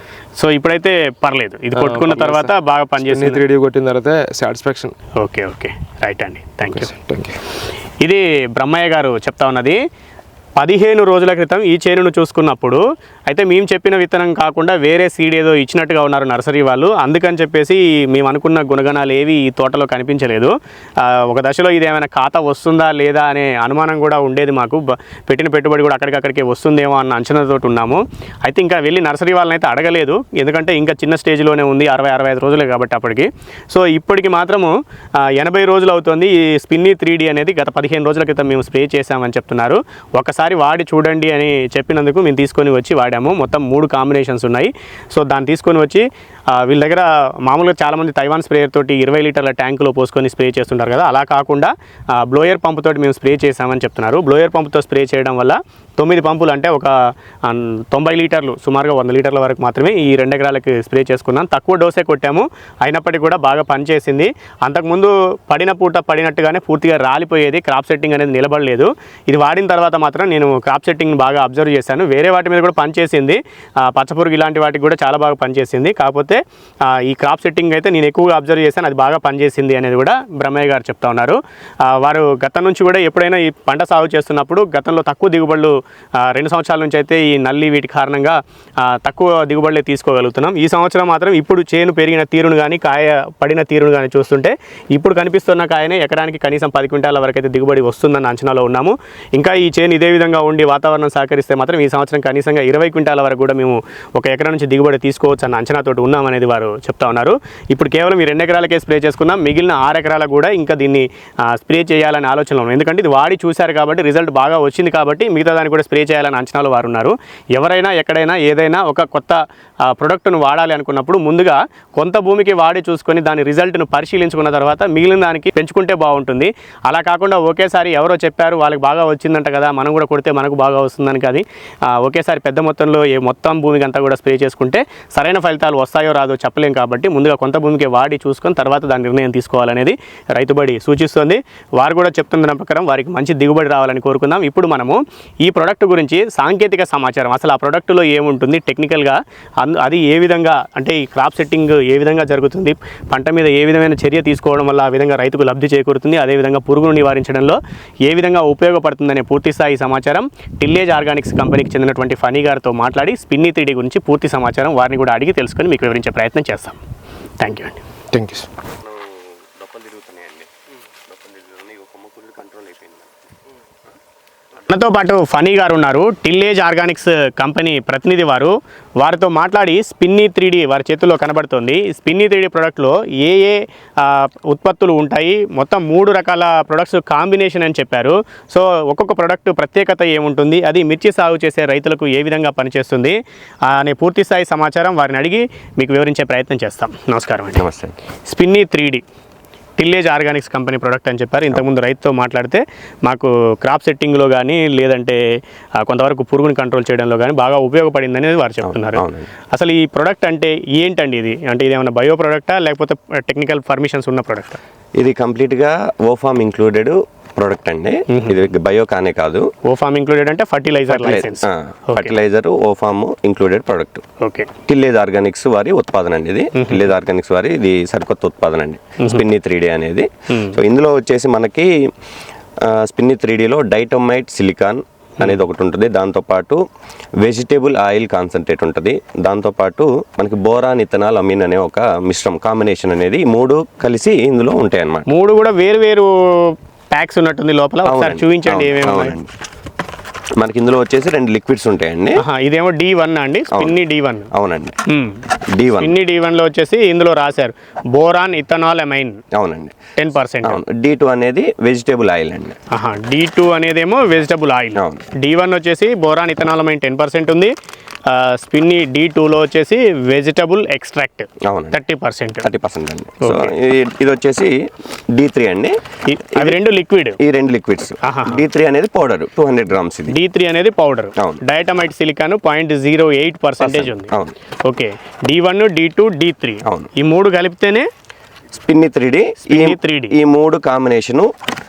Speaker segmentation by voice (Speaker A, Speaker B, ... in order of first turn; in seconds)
Speaker A: 0.4-3.4, 5.2-6.9, 8.0-9.8, 10.6-166.8, 167.4-167.8, 174.7-197.7, 198.3-199.0, 199.8-214.6, 218.1-218.5, 219.6-222.2, 224.2-224.5, 226.5-226.9, 230.3-230.6, 245.1-249.2, 252.2-254.3, 254.9-255.2, 255.8-259.2, 260.0-260.6, 262.7-267.5, 268.1-272.5, 273.2-273.5, 276.1-277.2, 278.0-278.4, 280.1-284.1, 284.6-287.9, 289.5-290.1
Speaker B: 1.8-5.0, 6.7-7.4, 168.1-168.5
Speaker C: 168.8-170.5, 171.1-173.1, 197.6-198.0, 208.6-209.3, 215.0-219.5, 220.9-224.0, 224.7-231.7, 232.6-236.6, 237.2-245.1, 247.9-249.3, 250.4-252.2, 254.3-254.8, 255.5-255.9, 259.3-259.8, 260.4-262.6, 264.8-265.0, 271.4-271.8, 272.4-274.6, 275.1-275.8, 277.2-280.1, 281.2-281.4, 283.6-284.3, 286.6-286.9, 288.6-291.3